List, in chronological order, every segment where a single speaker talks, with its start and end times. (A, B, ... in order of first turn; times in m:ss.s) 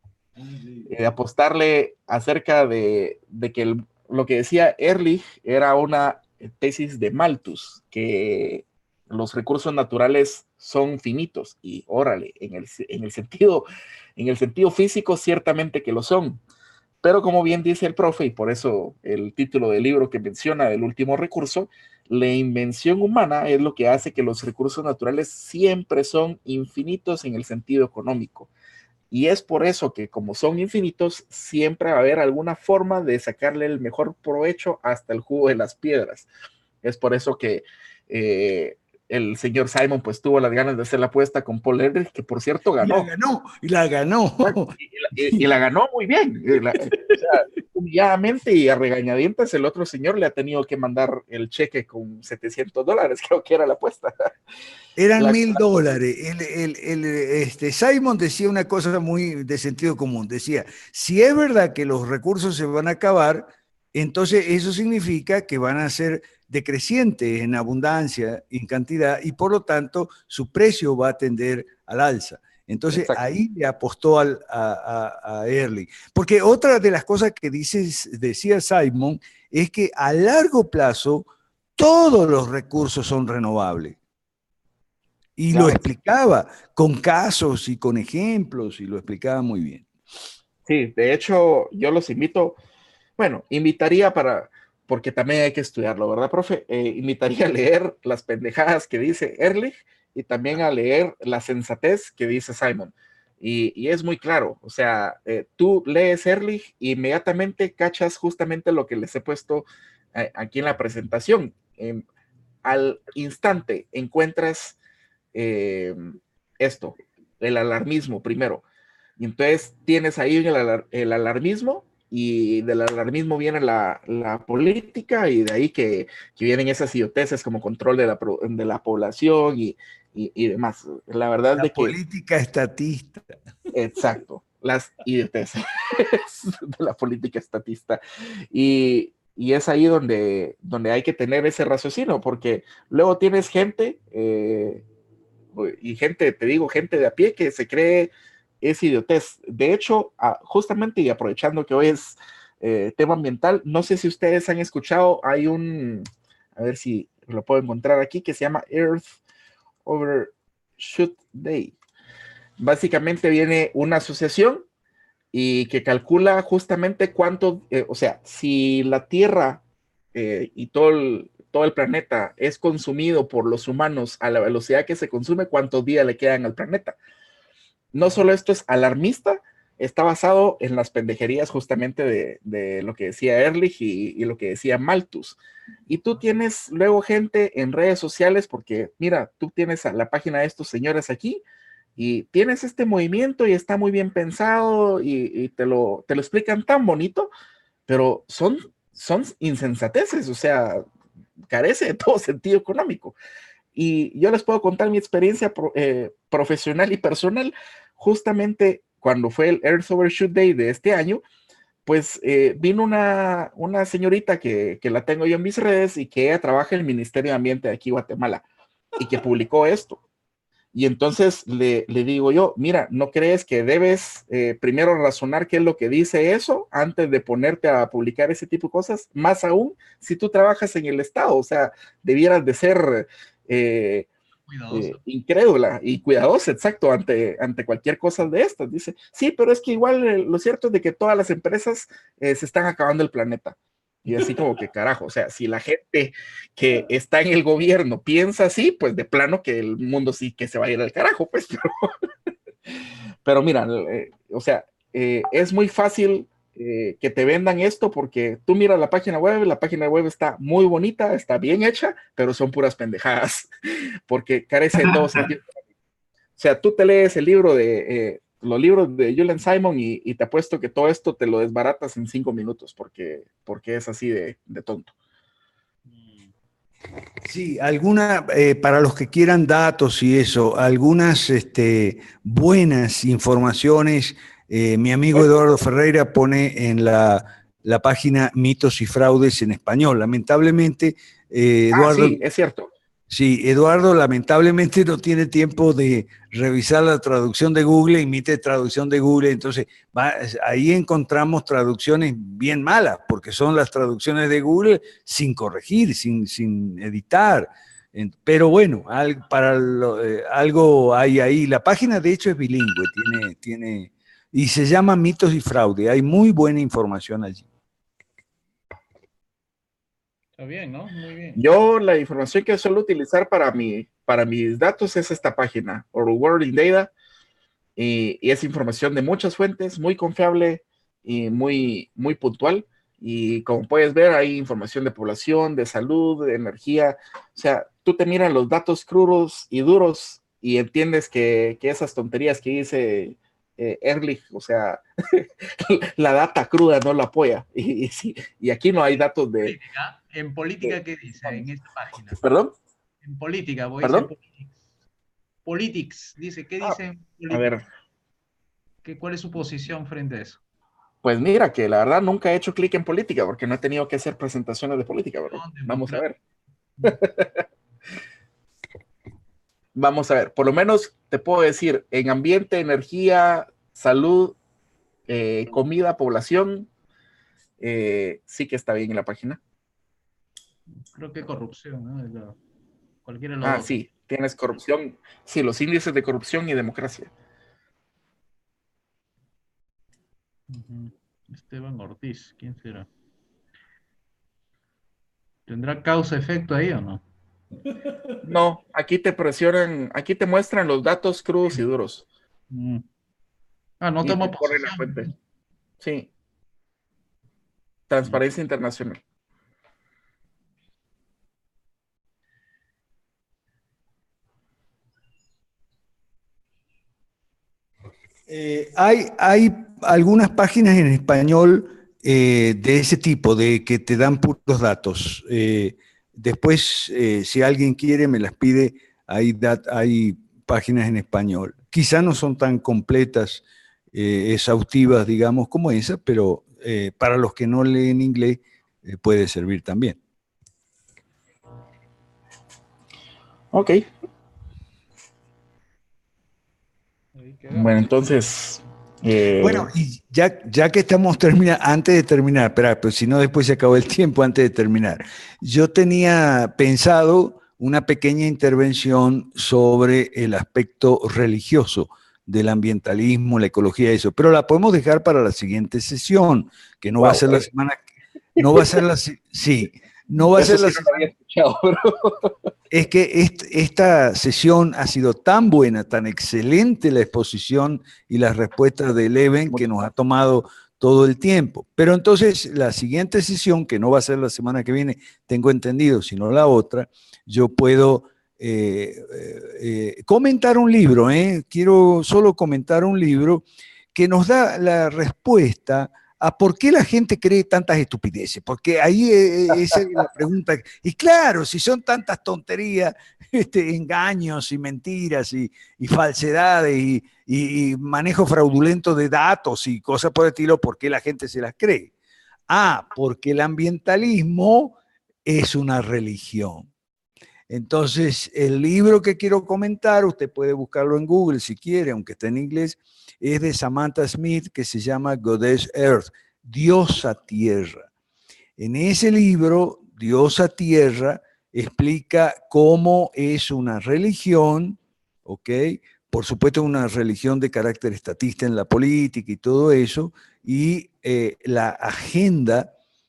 0:00.4-0:00.9 A
0:00.9-0:13.6 B
0:14.2-0:16.4 B
0:17.0-0:28.5 B
0:29.1-0:36.3 B
0:36.8-0:43.1 B
0:42.8-0:45.3 A
0:44.4-0:54.1 B
0:55.0-1:24.0 A
0:55.2-0:55.6 B
1:25.4-1:29.8 A
1:25.5-1:25.8 B
1:30.6-1:32.6 B
1:33.2-1:52.0 B
1:52.6-1:54.8 B
1:55.3-1:56.1 B
1:56.6-1:58.6 B
1:59.2-2:12.0 B
2:11.6-2:13.3 A
2:13.7-2:18.0 B
2:18.5-2:24.8 B
2:25.5-2:28.1 B
2:28.6-2:39.2 B
2:39.8-2:41.8 B
2:42.6-2:44.6 B
2:45.3-2:49.6 B
2:50.1-2:57.0 B
2:57.9-3:11.4 B
3:12.0-3:17.3 B
3:17.9-3:20.8 B
3:21.5-3:23.2 B
3:23.7-3:31.2 B
3:31.8-3:38.4 B
3:39.0-3:40.0 B
3:40.7-3:54.1 B
3:54.5-3:55.0 C
3:54.7-4:03.6 B
4:04.1-4:11.9 B
4:13.2-4:23.5 B
4:24.1-4:25.6 B
4:26.4-4:34.9 B
4:35.9-4:36.3 C
4:37.2-4:52.2 A
4:51.7-4:52.7 B
4:53.1-5:17.4 A
5:20.4-5:21.4 C
5:21.4-5:26.9 B
5:27.8-5:49.6 B
5:49.4-5:52.2 C
5:50.6-5:51.4 B
5:52.2-5:52.5 B
5:53.0-5:54.5 C
5:53.8-5:54.1 B
5:55.4-5:57.5 C
5:57.3-5:57.6 B
5:58.8-6:00.4 C
6:01.0-6:06.2 B
6:05.3-6:06.0 C
6:06.8-6:07.4 B
6:09.7-6:14.4 B
6:15.1-6:16.7 B
6:17.6-6:19.4 B
6:20.9-6:22.4 C
6:23.0-6:23.7 C
6:23.4-6:27.1 B
6:30.5-6:32.9 C
6:35.5-6:37.0 C
6:38.2-6:42.1 B
6:42.5-6:42.8 C
6:43.8-6:45.1 C
6:44.0-6:45.1 B
6:45.8-6:46.1 B
6:47.9-6:49.0 B
6:58.3-7:20.0 A
7:23.5-7:23.8 B
7:27.2-7:27.9 C
7:27.5-7:29.7 B
7:29.4-7:47.8 A
7:47.0-7:47.4 B
7:48.4-7:51.0 A
7:48.4-7:48.7 B
7:50.4-7:52.3 B
7:52.7-8:31.9 A
8:32.5-8:36.7 A
8:37.5-8:47.9 A
8:48.6-9:02.7 A